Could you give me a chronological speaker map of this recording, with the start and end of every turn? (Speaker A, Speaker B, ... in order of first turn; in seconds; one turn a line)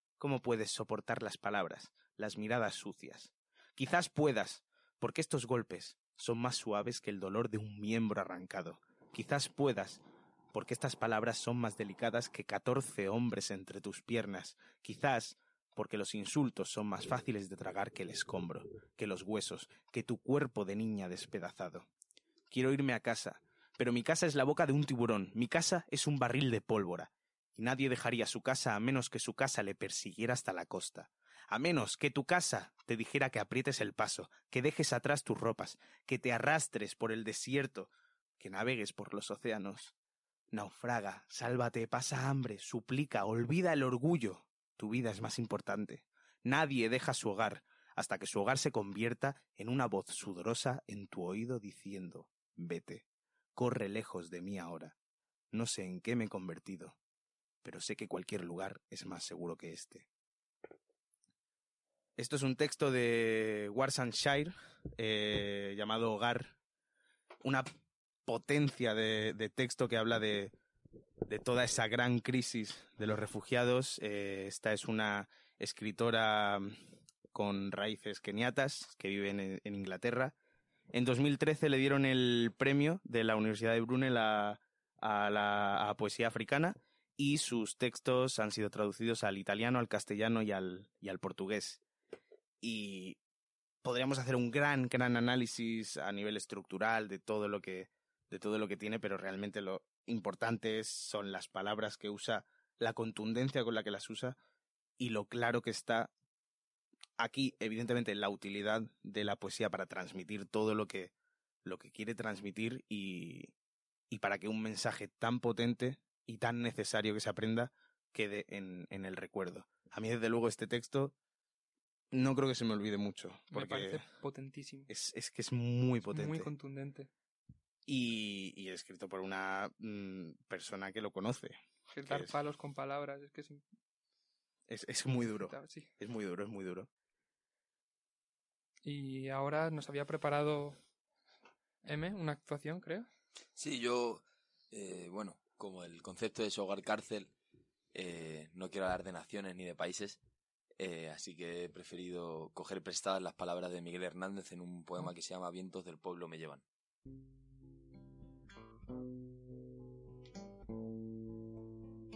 Speaker A: 0.2-10.0
Speaker A: 10.5-21.9
Speaker A: 22.5-39.9
Speaker A: 40.5-53.0
Speaker A: 53.5-54.9
Speaker A: 55.5-57.0
Speaker A: 57.6-60.1
Speaker A: 62.2-66.5
Speaker A: 68.2-70.5
Speaker A: 71.2-76.8
Speaker A: 77.3-80.3
Speaker A: 80.9-91.8
Speaker A: 92.6-93.2
Speaker A: 93.8-104.4
Speaker A: 105.0-106.1
Speaker A: 107.2-111.1
Speaker A: 111.6-113.5
Speaker A: 114.1-121.1
Speaker A: 122.1-124.0
Speaker B: 123.5-124.9
Speaker A: 124.9-126.5
Speaker B: 126.1-127.1
Speaker A: 127.9-132.3
Speaker B: 131.9-133.6
Speaker A: 134.7-136.9
Speaker B: 135.4-135.9
Speaker B: 138.8-140.8
Speaker B: 141.8-143.1
Speaker C: 143.6-147.3
Speaker C: 147.9-150.2
Speaker C: 150.8-156.6